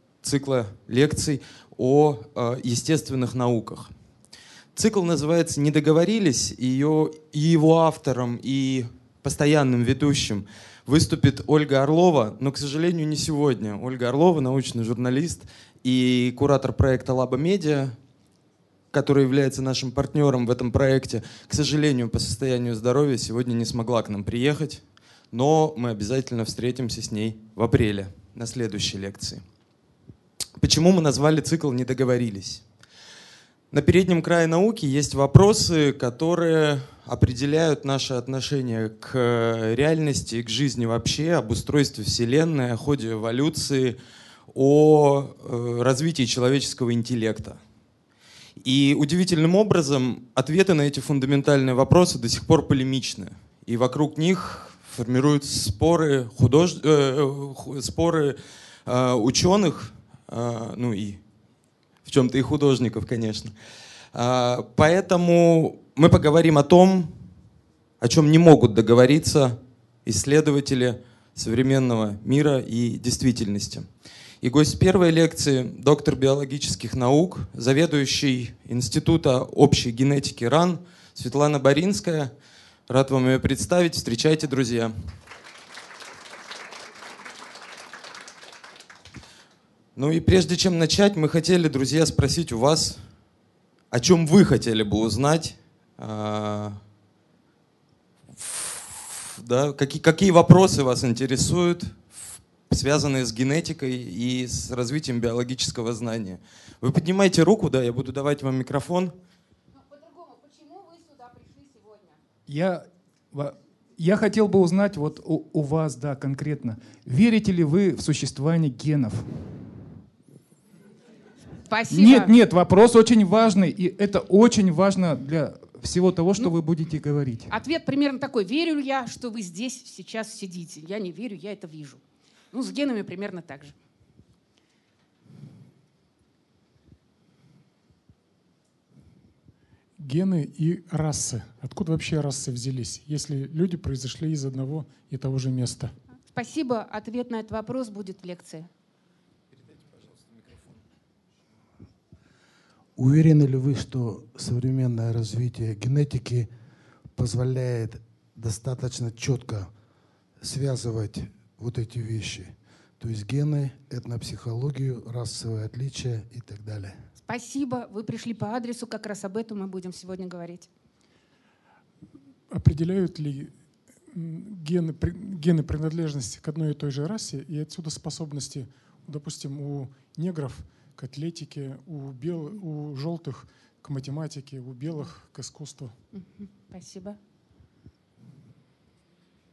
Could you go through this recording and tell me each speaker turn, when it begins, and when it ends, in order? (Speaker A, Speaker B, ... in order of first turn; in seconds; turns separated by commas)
Speaker A: 0.2-4.0, Speaker A: 4.7-18.0, Speaker A: 18.9-29.4, Speaker A: 30.6-32.7, Speaker A: 33.7-44.0, Speaker A: 44.5-47.6, Speaker A: 48.6-61.2, Speaker A: 62.0-63.5, Speaker A: 64.1-67.4, Speaker A: 68.0-82.3, Speaker A: 82.9-85.1, Speaker A: 90.0-93.2, Speaker A: 93.9-96.8, Speaker A: 98.3-109.2, Speaker B: 109.8-112.2, Speaker C: 112.5-119.7, Speaker B: 121.7-122.3, Speaker C: 121.9-127.5, Speaker B: 127.5-133.8, Speaker D: 140.0-145.9, Speaker B: 146.3-148.7, Speaker E: 153.0-156.5, Speaker E: 157.2-159.7, Speaker E: 160.4-167.1, Speaker B: 167.2-170.7, Speaker D: 172.5-173.6, Speaker D: 174.1-185.9, Speaker B: 186.1-187.2